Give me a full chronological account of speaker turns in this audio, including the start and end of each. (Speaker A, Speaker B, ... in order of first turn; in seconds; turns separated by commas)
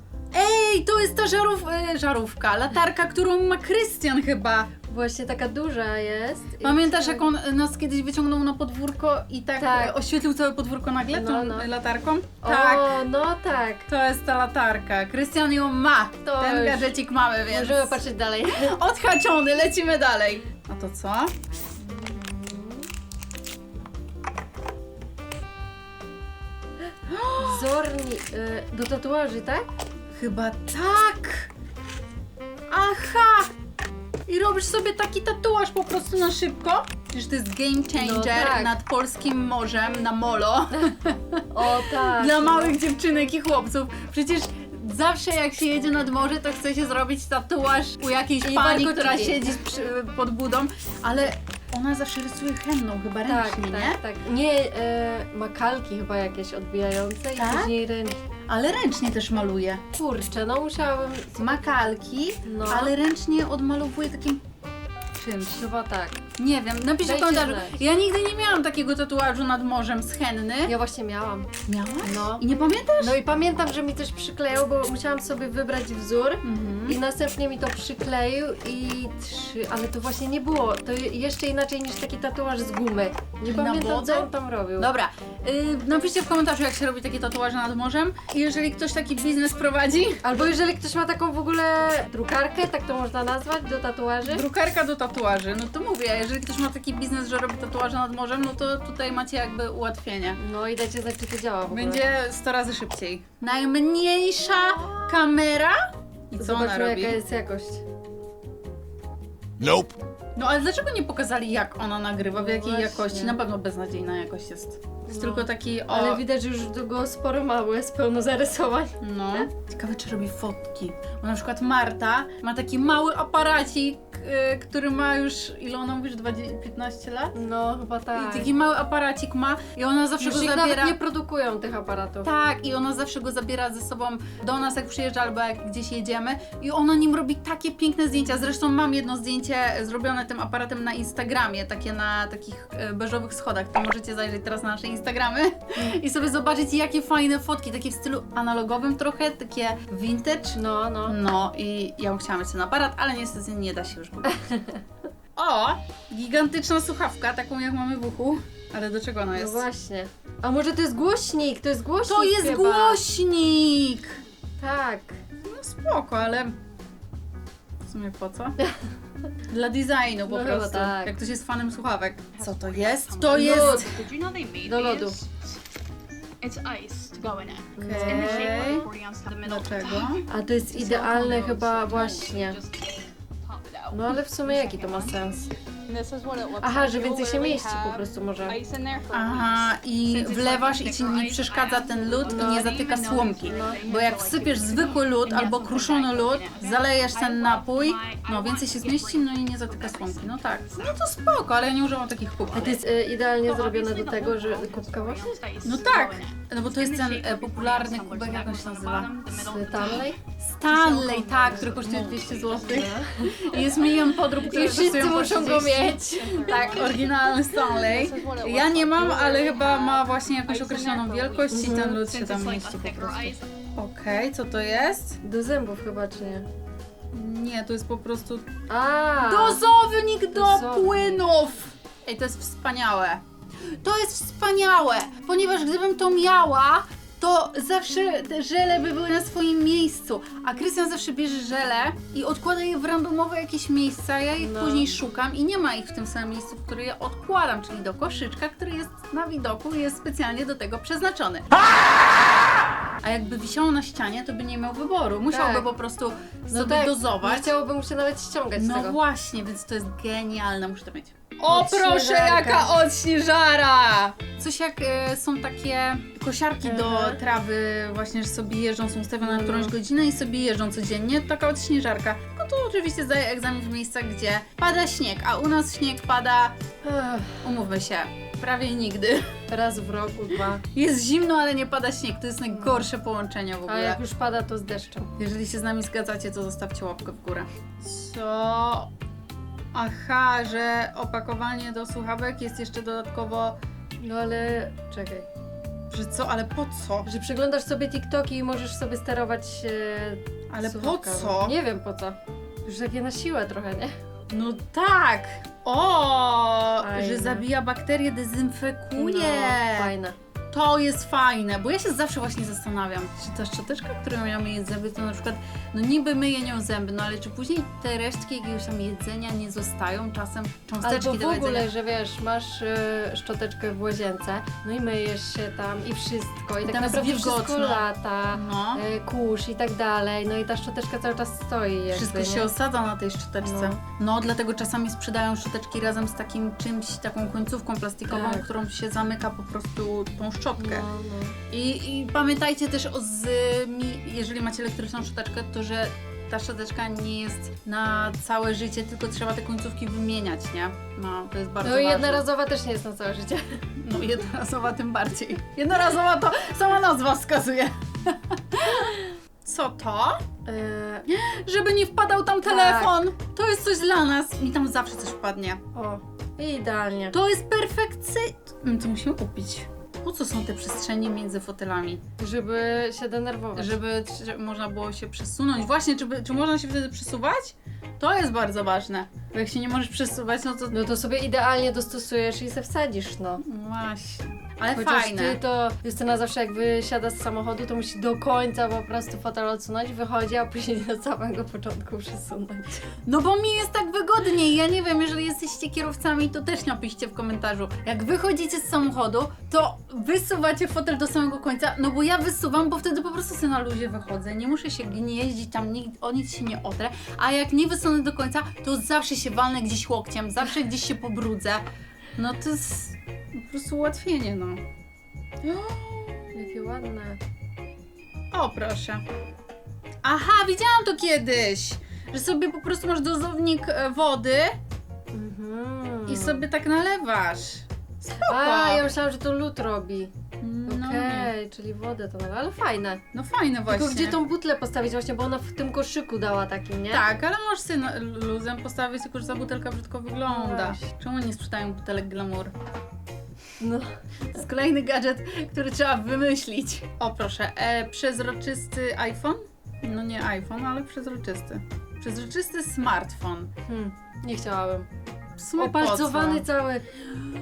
Speaker A: 0.3-4.7, Speaker B: 4.9-7.2, Speaker A: 6.6-13.0, Speaker B: 9.6-10.0, Speaker B: 11.1-11.7, Speaker B: 12.4-13.8, Speaker A: 13.9-21.3, Speaker B: 16.2-16.9, Speaker B: 17.5-18.8, Speaker B: 21.8-22.9, Speaker A: 27.1-27.7, Speaker B: 27.4-29.7, Speaker A: 30.1-31.5, Speaker A: 32.7-33.5, Speaker A: 34.3-54.0, Speaker B: 37.9-38.7, Speaker B: 41.5-42.8, Speaker B: 48.4-49.5, Speaker B: 53.2-58.2, Speaker A: 57.3-57.8, Speaker A: 58.5-59.8, Speaker B: 59.9-61.6, Speaker A: 61.3-64.4, Speaker B: 62.5-62.9, Speaker A: 65.2-65.6, Speaker B: 65.5-66.2, Speaker A: 66.4-70.7, Speaker B: 67.0-67.8, Speaker B: 70.7-71.5, Speaker A: 71.7-73.2, Speaker B: 72.0-72.4, Speaker B: 73.0-84.9, Speaker A: 76.4-77.0, Speaker A: 83.5-90.2, Speaker B: 90.2-94.5, Speaker A: 94.2-100.4, Speaker B: 100.4-102.0, Speaker A: 101.7-107.2, Speaker B: 106.4-107.8, Speaker A: 110.3-116.2, Speaker B: 112.2-113.4, Speaker B: 115.1-119.5, Speaker A: 119.0-127.3, Speaker B: 127.3-128.5, Speaker A: 128.1-131.0, Speaker B: 130.2-132.3, Speaker A: 132.2-154.5, Speaker B: 150.5-151.2, Speaker A: 155.3-159.7, Speaker B: 159.3-163.0, Speaker A: 162.0-164.2, Speaker B: 164.6-165.2, Speaker A: 165.4-166.5, Speaker A: 167.8-168.6, Speaker A: 169.5-173.9, Speaker B: 170.3-171.1, Speaker C: 172.3-175.3, Speaker B: 173.3-173.9, Speaker B: 174.7-175.2, Speaker C: 176.4-185.3, Speaker B: 177.8-178.6, Speaker A: 177.8-180.2, Speaker B: 180.3-182.6, Speaker B: 183.9-185.5, Speaker C: 185.9-201.0, Speaker B: 186.6-188.6, Speaker A: 189.1-202.8, Speaker B: 192.3-192.8, Speaker B: 193.4-193.8, Speaker C: 202.5-210.2, Speaker B: 202.5-205.4, Speaker A: 205.6-209.1, Speaker B: 209.4-210.2, Speaker A: 210.4-225.2, Speaker B: 210.7-216.9, Speaker C: 211.8-212.9, Speaker C: 213.4-213.9, Speaker C: 214.6-215.0, Speaker C: 216.2-218.5, Speaker B: 217.8-222.0, Speaker C: 220.5-223.5, Speaker B: 225.2-226.5, Speaker A: 227.1-228.5, Speaker B: 228.7-229.6, Speaker A: 229.2-251.5, Speaker B: 230.3-231.2, Speaker B: 244.4-244.9, Speaker A: 253.0-257.5, Speaker B: 255.3-255.7, Speaker B: 256.5-259.0, Speaker A: 258.6-276.6, Speaker B: 261.5-262.8, Speaker B: 266.6-267.2, Speaker B: 269.2-269.7, Speaker B: 276.8-277.6, Speaker A: 277.4-279.3, Speaker B: 279.5-280.6, Speaker A: 280.7-284.0, Speaker B: 282.5-282.9, Speaker B: 283.6-285.1, Speaker A: 285.2-288.9, Speaker A: 289.7-293.6, Speaker B: 294.0-295.3, Speaker A: 295.9-297.1, Speaker B: 297.0-303.9, Speaker A: 300.5-301.5, Speaker A: 304.3-309.9, Speaker B: 306.8-307.4, Speaker B: 308.9-310.1, Speaker A: 310.5-321.7, Speaker B: 320.8-332.5, Speaker A: 326.6-328.8, Speaker A: 331.9-340.9, Speaker B: 333.4-333.8, Speaker B: 338.1-338.4, Speaker B: 340.6-341.4, Speaker A: 341.5-352.2, Speaker B: 351.6-353.6, Speaker A: 353.8-358.9, Speaker A: 359.4-360.3, Speaker B: 360.5-361.0, Speaker A: 361.1-365.6, Speaker B: 362.4-363.0, Speaker B: 365.7-367.1, Speaker A: 367.1-372.0, Speaker B: 372.2-373.8, Speaker A: 373.5-380.8, Speaker B: 380.7-383.4, Speaker A: 383.4-385.4, Speaker B: 384.7-392.8, Speaker A: 393.0-411.6, Speaker A: 412.1-414.6, Speaker A: 415.4-416.5, Speaker B: 416.3-417.2, Speaker A: 418.3-419.0, Speaker A: 420.0-424.6, Speaker B: 425.1-426.5, Speaker A: 426.1-428.9, Speaker B: 428.2-430.1, Speaker A: 430.4-431.3, Speaker B: 430.6-433.0, Speaker A: 433.1-434.2, Speaker B: 433.7-437.0, Speaker A: 436.9-442.5, Speaker B: 440.3-440.8, Speaker B: 443.6-443.9, Speaker A: 444.3-453.5, Speaker B: 453.7-454.9, Speaker A: 455.4-456.5, Speaker B: 455.6-456.9